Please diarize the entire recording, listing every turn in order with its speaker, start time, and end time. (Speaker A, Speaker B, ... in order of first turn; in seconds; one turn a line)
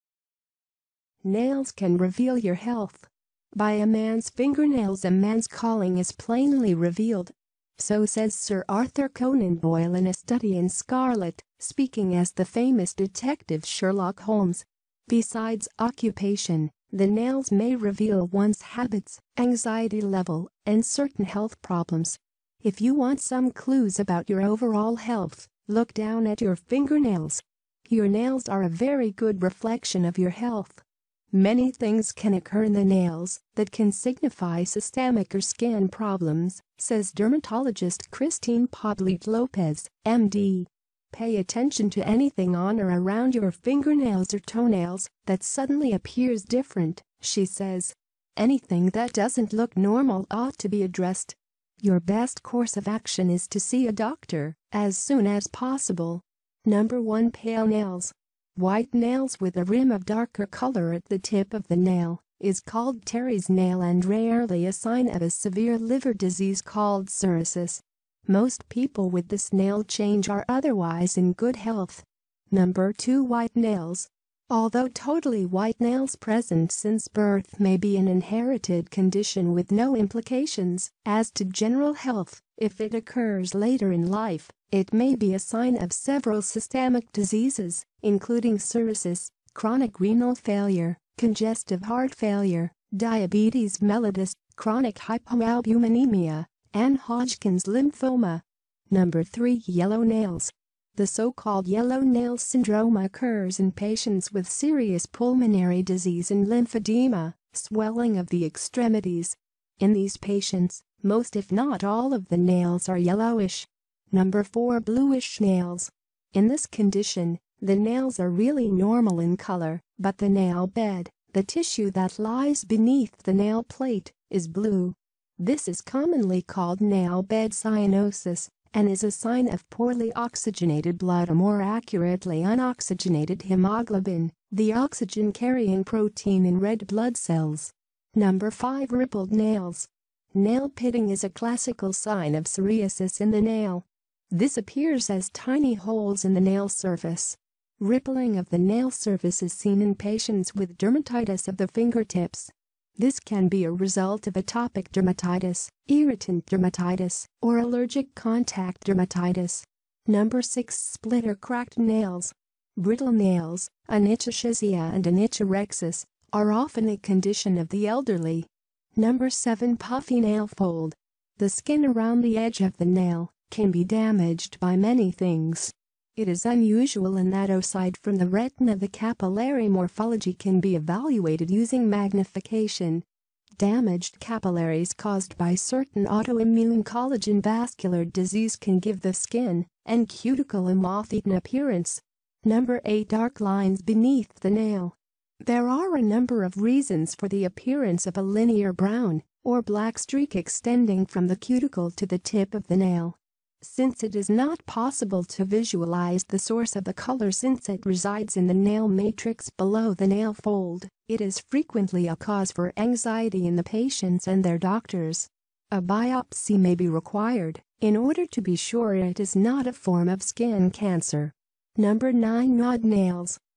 Speaker A: 1.2-183.1
Speaker A: 183.6-223.4